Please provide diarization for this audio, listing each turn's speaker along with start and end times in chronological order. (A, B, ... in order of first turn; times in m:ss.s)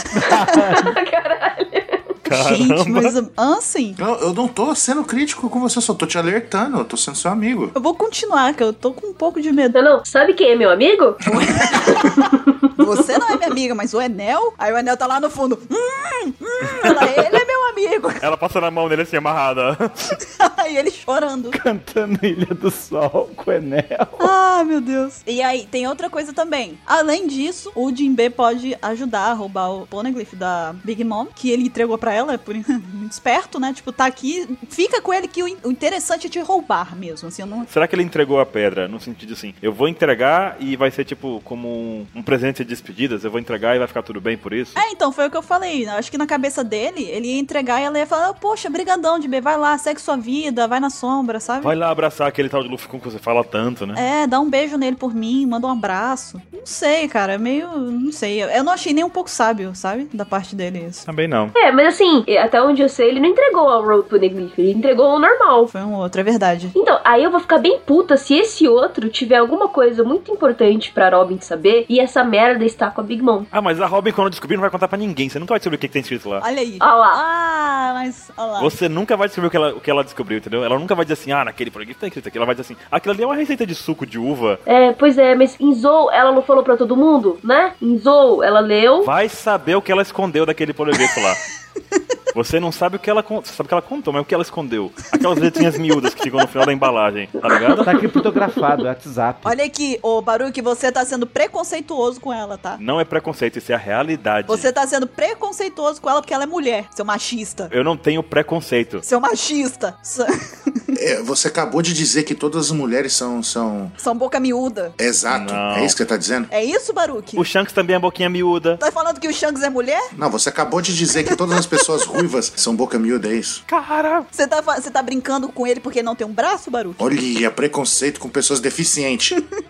0:00.1-0:00.9 A
0:00.7-0:02.0 B
0:02.2-0:03.1 C
0:02.2-0:04.0 D
0:04.0-0:07.7 E
0:07.7-0:09.8 D
0:09.7-0:11.2 B
0:11.3-0:12.2 D
0:12.8-0:18.2 D
0:18.2-0:20.2 C
0:20.4-0:21.6 D
0:21.5-0:24.3 A
0:24.2-0:37.7 D
0:37.7-0:44.8 C
0:44.8-0:51.7 D
0:51.6-0:54.0 C
0:53.9-1:01.0 D
1:01.1-1:01.5 C
1:01.5-1:05.7 B
1:05.7-1:06.7 D
1:06.7-1:13.5 B
1:13.5-1:16.4 C
1:16.4-1:18.7 D
1:16.8-1:17.2 B
1:18.6-1:24.6 C
1:24.6-1:29.1 B
1:29.0-1:31.4 C
1:32.3-1:38.0 C
1:37.8-1:39.5 A
1:39.4-1:42.8 D
1:42.8-1:44.7 C
1:44.5-1:47.7 D
1:47.7-1:49.0 C
1:49.0-1:50.9 D
1:51.0-1:53.9 E
1:54.0-1:54.9 D
1:55.0-1:56.5 E
1:55.3-1:56.0 C
1:56.5-1:57.5 D
1:57.4-1:58.8 C
1:58.8-2:00.1 D
2:00.2-2:03.6 E
2:03.7-2:04.3 C
2:04.3-2:07.1 D
2:07.0-2:09.3 E